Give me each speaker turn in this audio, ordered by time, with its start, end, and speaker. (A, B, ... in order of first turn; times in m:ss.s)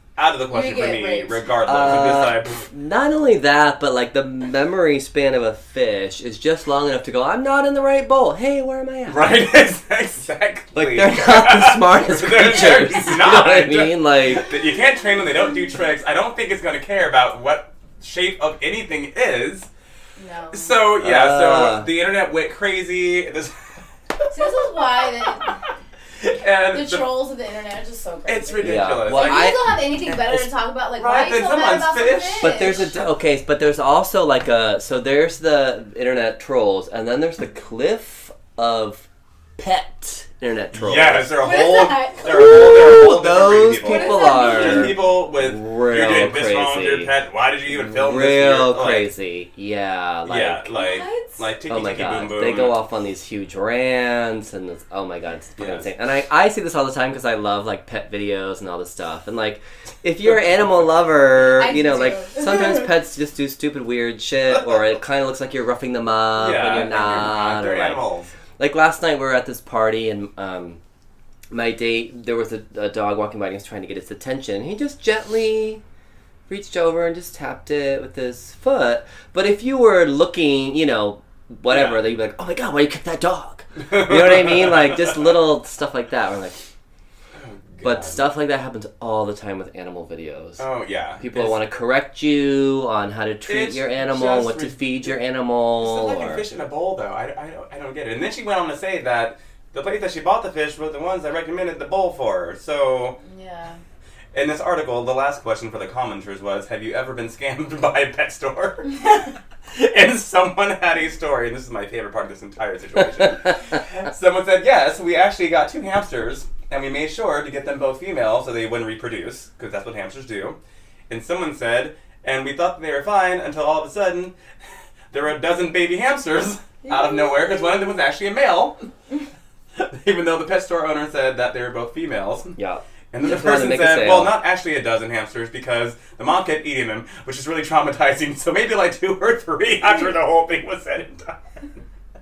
0:00.2-0:02.6 A
0:00.5-0:01.4 B
0:01.6-0:09.4 C
0:09.1-0:19.7 A
0:10.7-0:14.5 C
0:20.2-0:20.8 B
0:20.5-0:25.5 A
0:21.0-0:21.9 C
0:24.3-0:25.6 B
0:26.2-0:27.1 A
0:26.7-0:32.9 B
0:28.3-0:29.5 A
0:28.6-0:30.5 C
0:31.0-0:32.9 A
0:32.4-0:41.4 C
0:40.7-0:49.1 A
0:41.4-0:42.9 B
0:42.3-0:47.1 C
0:43.8-0:45.0 B
0:47.7-0:50.7 C
0:50.3-0:52.7 A
0:50.7-0:51.4 B
0:51.7-1:08.0 C
0:55.6-0:55.9 A
1:01.5-1:02.8 B
1:06.4-1:08.3 A
1:08.6-1:10.8 C
1:11.5-1:15.8 C
1:16.5-1:26.6 C
1:21.7-1:22.0 A
1:23.8-1:25.3 A
1:27.3-1:28.2 A
1:27.8-1:30.6 C
1:30.6-1:31.6 A
1:31.2-1:36.4 C
1:33.5-1:35.2 A
1:35.7-1:43.2 A
1:43.2-1:43.8 B
1:44.3-2:00.6 A
2:01.1-2:04.3 A
2:05.1-2:08.8 A
2:06.8-2:07.6 B
2:09.7-2:12.6 A
2:12.6-2:14.4 C
2:13.1-2:21.4 A